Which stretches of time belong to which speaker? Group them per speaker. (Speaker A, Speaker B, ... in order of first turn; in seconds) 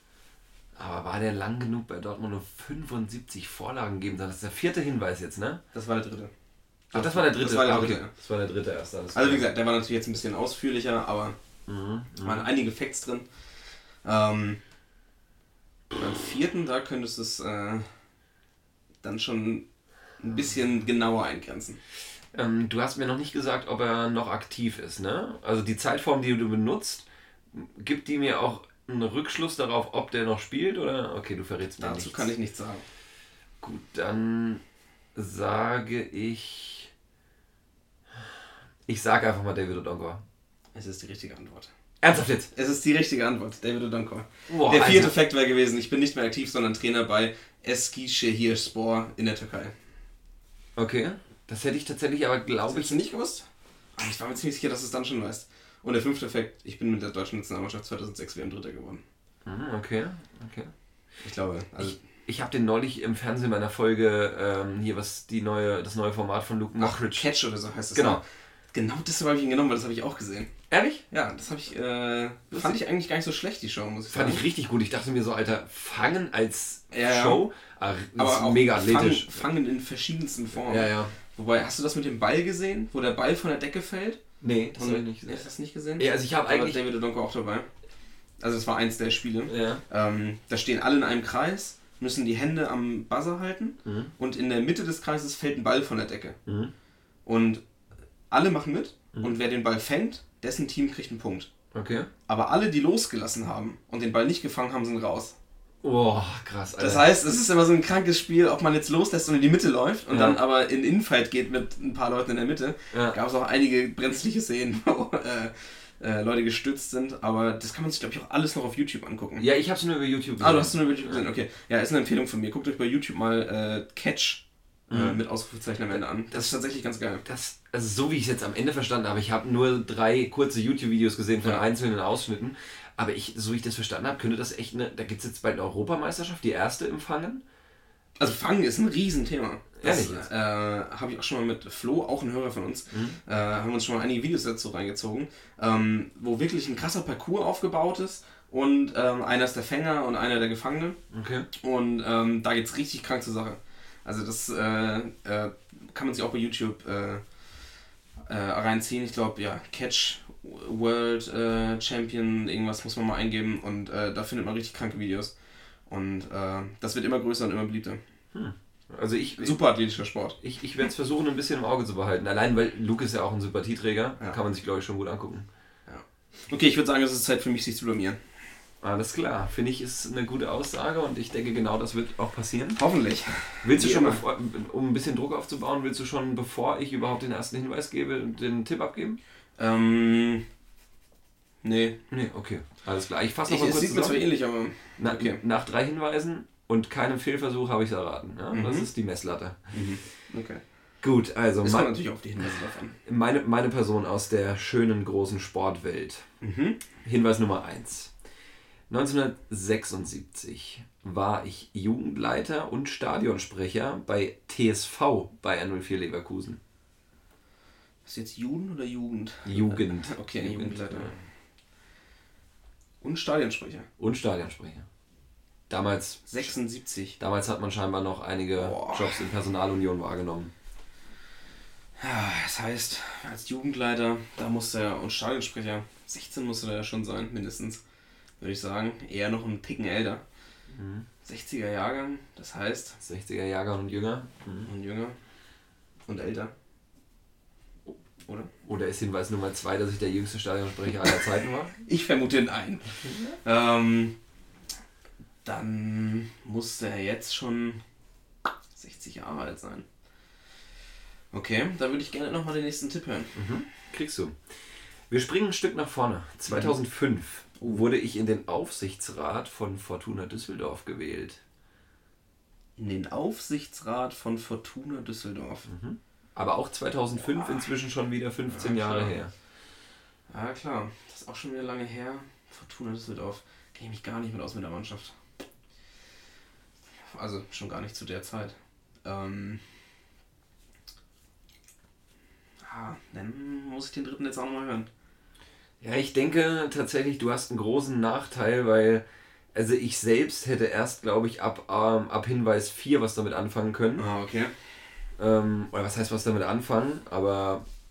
Speaker A: 0.8-5.6, 6.9-9.5, 11.7-12.5, 22.3-32.3, 33.6-34.6, 35.1-36.9, 38.9-40.2, 42.0-42.5, 44.5-45.2, 50.8-53.0, 59.5-60.7, 61.8-67.3, 68.0-68.2, 70.7-71.0, 72.5-72.8, 74.1-79.4, 80.6-81.1, 84.4-85.5, 86.0-86.8, 89.5-89.8, 93.8-94.1, 96.5-96.7, 101.7-102.1, 105.8-107.1, 110.1-110.4, 112.9-113.2, 119.4-121.2, 124.9-125.2, 125.9-126.5, 127.2-137.4, 139.8-140.3, 142.9-143.2, 151.1-151.5, 168.3-169.6, 170.4-175.5, 178.8-182.8, 183.6-189.2, 192.1-194.2, 195.0-199.6, 201.0-201.9, 203.1-206.2, 207.0-208.1, 208.9-216.6, 219.5-221.2, 224.0-224.9, 225.7-226.5, 227.2-230.5, 240.7-241.1, 243.0-244.7, 248.7-251.8, 253.1-253.3, 263.4-264.4, 265.1-271.4, 275.7-279.3, 295.8-304.1, 305.2-307.6
Speaker B: 5.7-6.3, 6.9-8.1, 9.1-11.4, 12.2-13.3, 14.0-14.6, 15.9-17.9, 19.0-19.6, 20.2-21.8, 31.8-32.9, 40.7-41.7, 42.5-49.7, 52.7-53.5, 54.0-59.0, 61.2-62.0, 66.8-70.5, 71.1-74.5, 76.9-77.4, 78.2-84.2, 84.8-87.7, 88.4-96.4, 97.2-97.6, 98.3-101.5, 102.3-105.4, 106.8-119.5, 120.4-127.2, 138.2-151.0, 151.6-157.2, 158.3-165.3, 165.9-168.0, 169.4-170.4, 175.9-178.2, 182.8-184.2, 189.6-190.4, 191.6-192.0, 193.5-195.4, 198.5-198.9, 199.7-200.6, 201.6-203.0, 206.4-206.9, 218.1-221.2, 223.0-223.9, 226.3-227.2, 228.6-229.3, 232.0-237.8, 238.4-240.2, 241.2-243.0, 244.7-245.2, 246.1-246.5, 251.8-254.2, 255.4-257.8, 258.8-259.9, 261.3-263.3, 266.5-266.8, 267.6-267.9, 272.8-275.7, 278.5-279.2, 280.3-285.1, 287.1-289.6, 292.6-294.9, 304.0-304.5